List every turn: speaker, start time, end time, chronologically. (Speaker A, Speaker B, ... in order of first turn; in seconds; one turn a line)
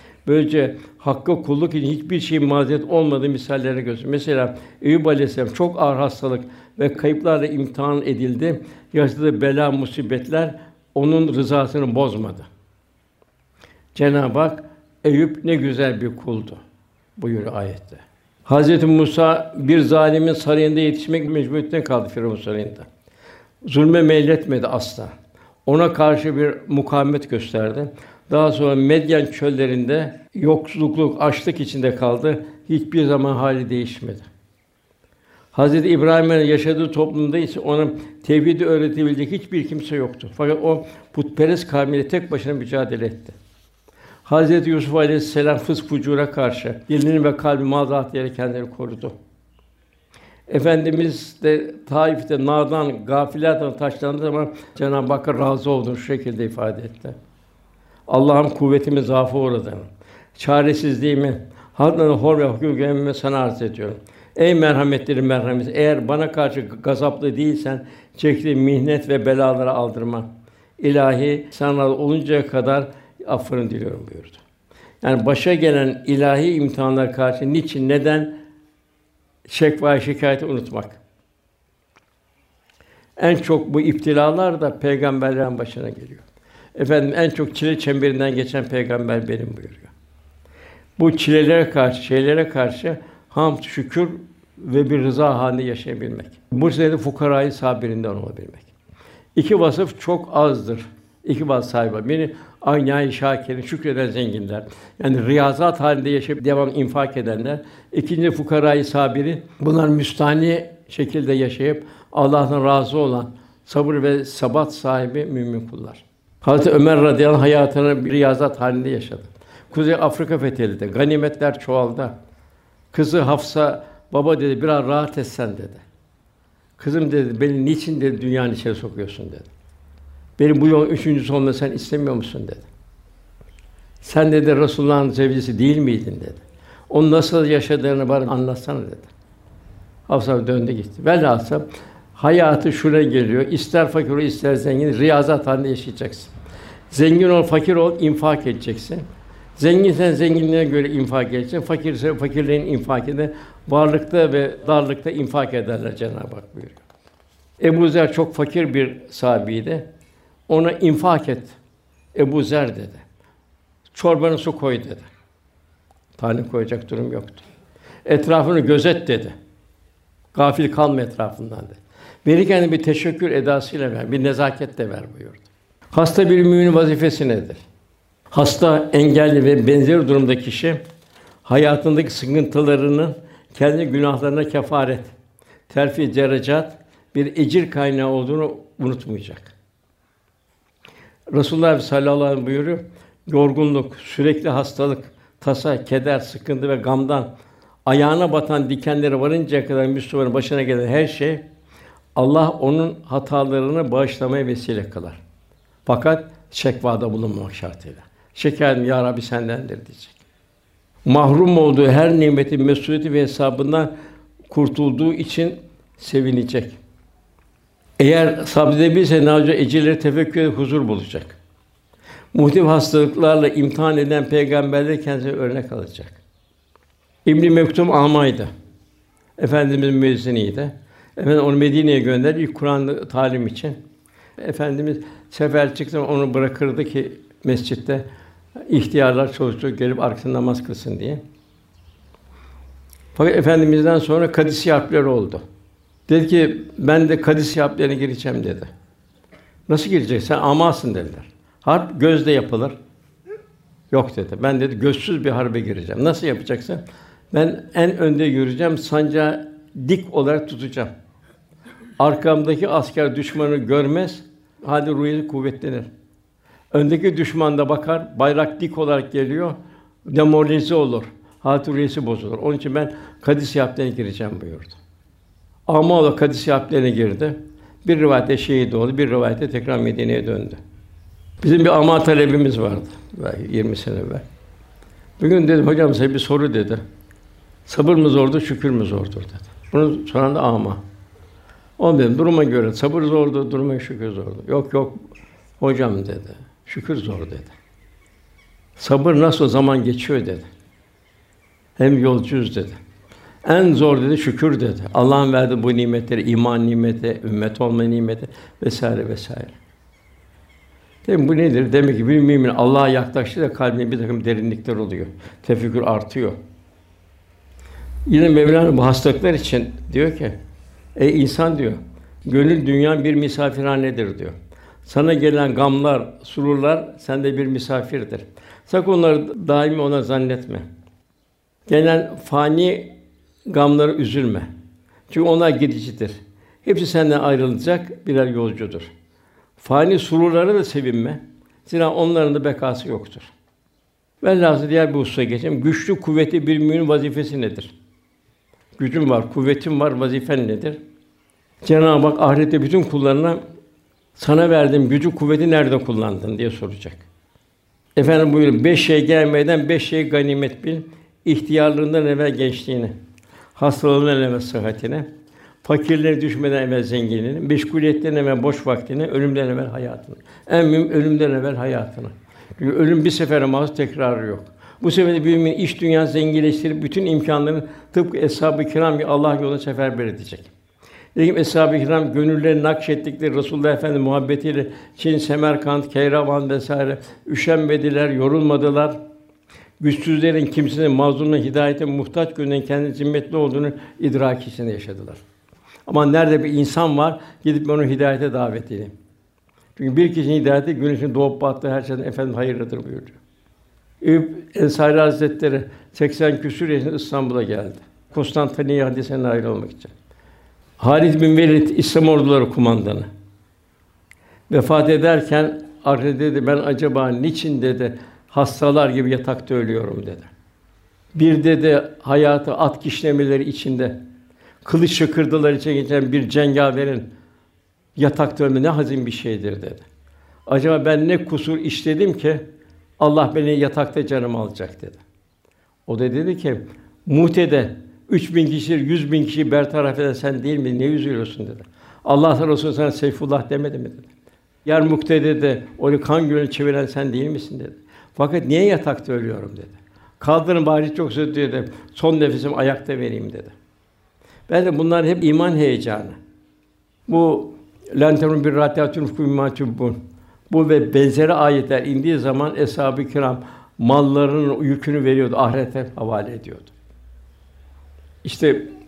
Speaker A: 0.2-12.5
Speaker A: 13.9-16.6
Speaker A: 17.2-22.9
Speaker A: 23.6-25.1
Speaker A: 25.6-34.2
Speaker A: 35.5-43.3
Speaker A: 44.2-49.1
Speaker A: 50.5-57.1
Speaker A: 58.1-70.2
Speaker A: 70.8-74.4
Speaker A: 75.0-78.3
Speaker A: 79.5-81.0
Speaker A: 83.2-86.2
Speaker A: 86.7-89.9
Speaker A: 91.0-98.7
Speaker A: 99.3-122.1
Speaker A: 122.9-125.8
Speaker A: 126.8-129.5
Speaker A: 130.4-132.7
Speaker A: 134.0-139.1
Speaker A: 140.1-146.3
Speaker A: 146.9-149.1
Speaker A: 149.6-156.8
Speaker A: 157.6-159.8
Speaker A: 160.5-161.6
Speaker A: 162.1-163.0
Speaker A: 163.9-165.1
Speaker A: 166.2-167.4
Speaker A: 168.0-169.3
Speaker A: 170.3-177.6
Speaker A: 178.3-180.8
Speaker A: 181.4-185.1
Speaker A: 185.7-189.5
Speaker A: 191.3-197.3
Speaker A: 197.8-201.4
Speaker A: 202.1-205.2
Speaker A: 205.8-210.2
Speaker A: 211.0-213.9
Speaker A: 214.5-216.8
Speaker A: 218.0-221.4
Speaker A: 222.3-226.2
Speaker A: 227.2-228.5
Speaker A: 229.4-233.8
Speaker A: 234.4-238.0
Speaker A: 238.7-241.2
Speaker A: 243.1-245.4
Speaker A: 246.1-248.7
Speaker A: 249.7-252.8
Speaker A: 253.9-260.9
Speaker A: 262.0-265.9
Speaker A: 266.7-269.6
Speaker A: 270.1-274.8
Speaker A: 275.7-280.6
Speaker A: 281.4-284.2
Speaker A: 285.2-286.8
Speaker A: 287.7-290.8
Speaker A: 291.8-295.0
Speaker A: 295.6-297.5
Speaker A: 298.8-300.4
Speaker A: 301.8-302.8
Speaker A: 303.4-309.6
Speaker A: 311.0-316.4
Speaker A: 318.1-320.3
Speaker A: 320.9-330.6
Speaker A: 331.7-332.9
Speaker A: 333.5-334.5
Speaker A: 335.1-338.9
Speaker A: 339.6-343.3
Speaker A: 344.2-347.7
Speaker A: 348.8-350.8
Speaker A: 351.6-353.4
Speaker A: 354.1-357.0
Speaker A: 357.9-362.9
Speaker A: 363.6-365.1
Speaker A: 365.6-380.5
Speaker A: 381.1-389.0
Speaker A: 389.8-395.2
Speaker A: 395.9-398.9
Speaker A: 399.8-403.2
Speaker A: 404.0-409.9
Speaker A: 410.8-413.1
Speaker A: 414.5-420.3
Speaker A: 421.1-423.9
Speaker A: 424.6-427.1
Speaker A: 427.9-429.8
Speaker A: 430.5-432.4
Speaker A: 433.0-435.0
Speaker A: 435.9-444.1
Speaker A: 444.6-453.5
Speaker A: 454.5-456.1
Speaker A: 457.1-460.0
Speaker A: 460.5-466.7
Speaker A: 468.2-468.7